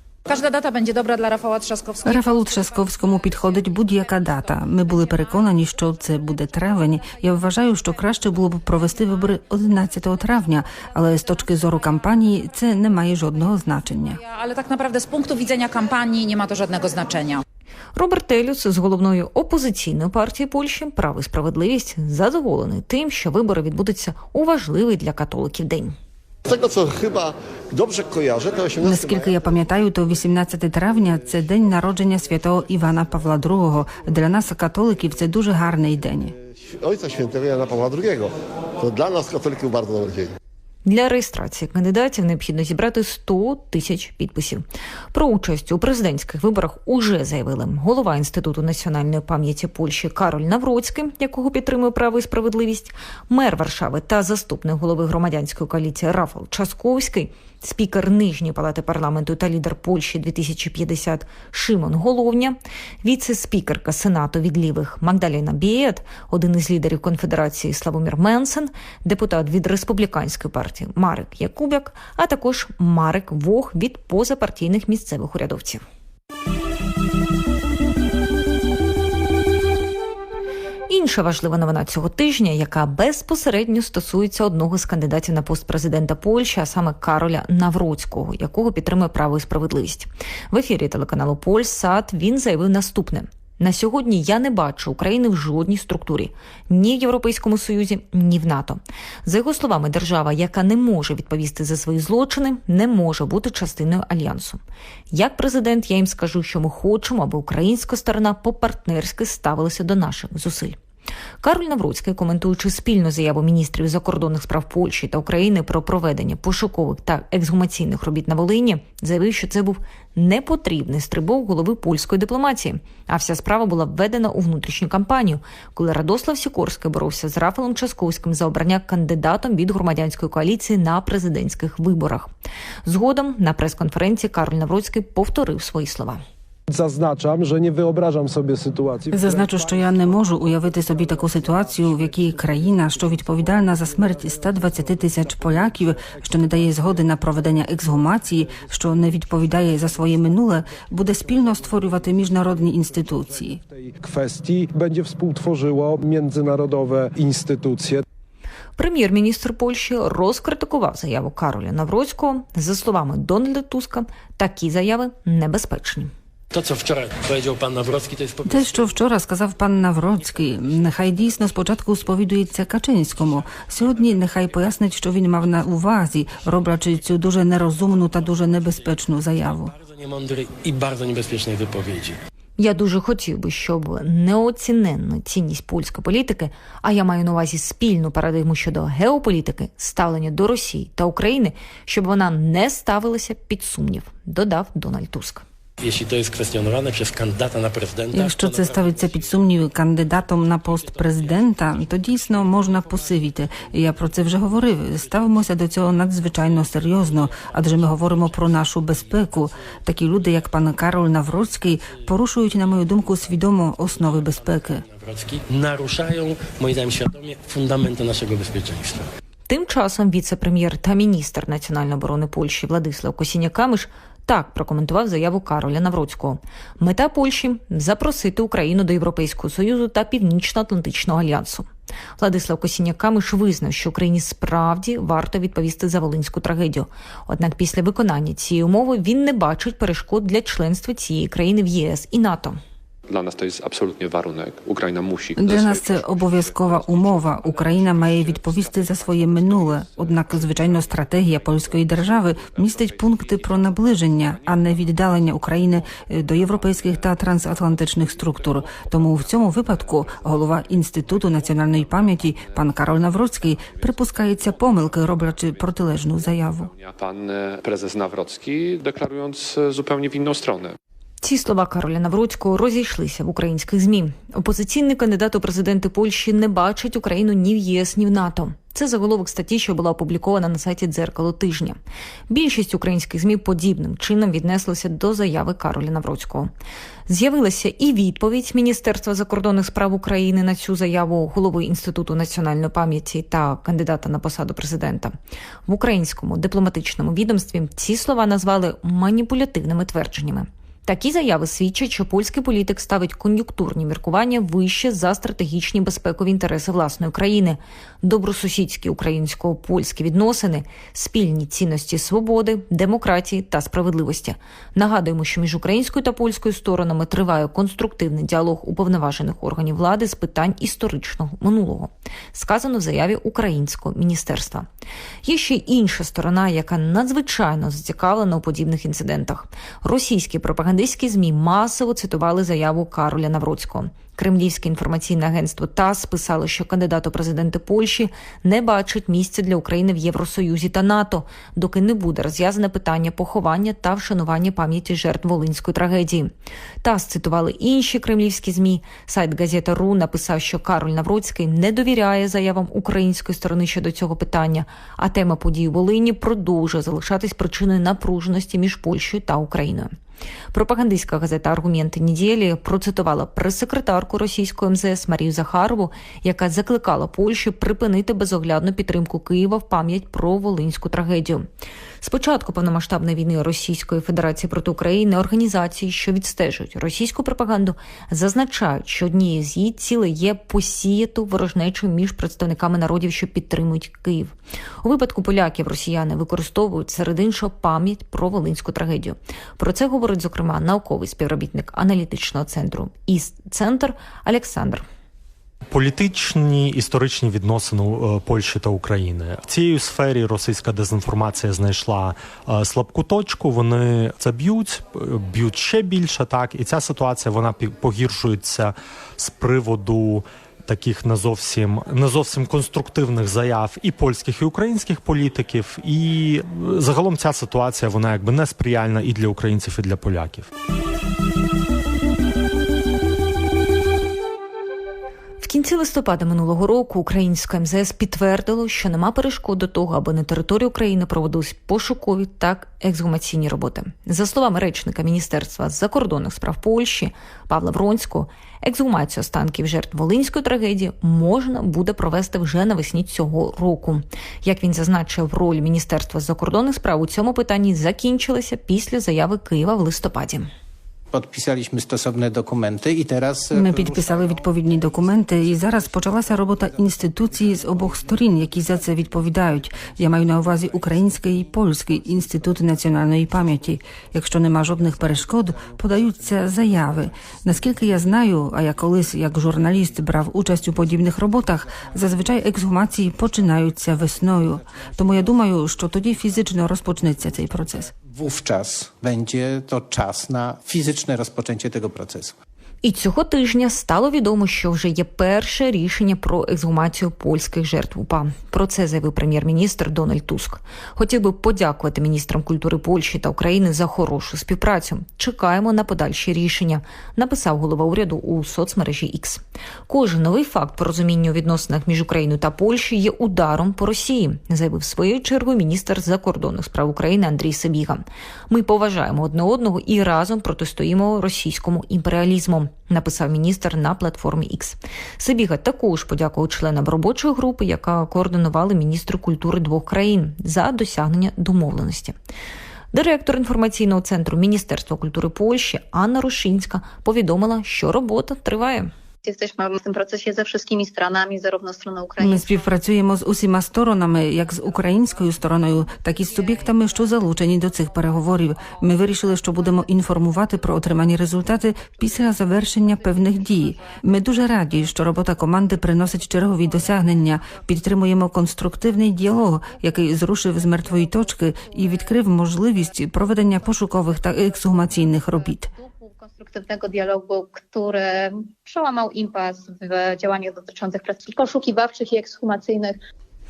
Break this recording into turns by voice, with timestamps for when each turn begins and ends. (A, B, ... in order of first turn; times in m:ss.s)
0:00.3-0:02.6 A
0:02.0-0:14.2 B
0:14.1-0:17.4 A
0:17.9-0:25.9 C
0:26.4-0:29.4 D
0:28.8-0:36.3 B
0:36.6-0:40.3 D
0:40.8-1:15.8 C
1:20.9-1:44.6 C
1:45.1-1:50.8 C
1:51.4-2:12.3 C
2:12.8-2:16.2 C
2:16.7-2:38.0 E
2:19.1-2:33.6 B
2:38.8-2:46.1 C
2:46.5-2:49.0 F
2:48.4-2:59.7 B
2:50.1-2:52.3 F
2:53.2-2:54.8 F
2:56.6-3:02.2 F
3:02.6-3:15.4 C
3:15.8-3:19.5 F
3:18.1-3:34.8 B
3:20.6-3:25.5 F
3:26.3-3:29.5 F
3:30.1-3:39.0 F
3:39.5-3:51.7 C
3:52.2-4:02.6 C
4:03.1-4:30.8 G
4:05.4-4:26.7 B
4:31.2-4:41.8 C
4:42.3-4:46.5 C
4:47.1-4:55.1 C
4:55.7-5:24.6 C
5:25.2-5:46.3 C
5:46.8-5:59.9 C
6:00.5-6:11.4 C
6:12.0-6:34.8 C
6:35.7-7:00.5 H
7:05.4-7:30.5 C
7:31.1-7:34.5 I
7:33.5-7:57.9 B
7:58.0-8:02.3 I
8:02.8-8:42.1 C
8:42.9-8:48.9 C
8:49.2-8:52.7 J
8:52.2-9:15.7 B
9:14.8-9:23.0 J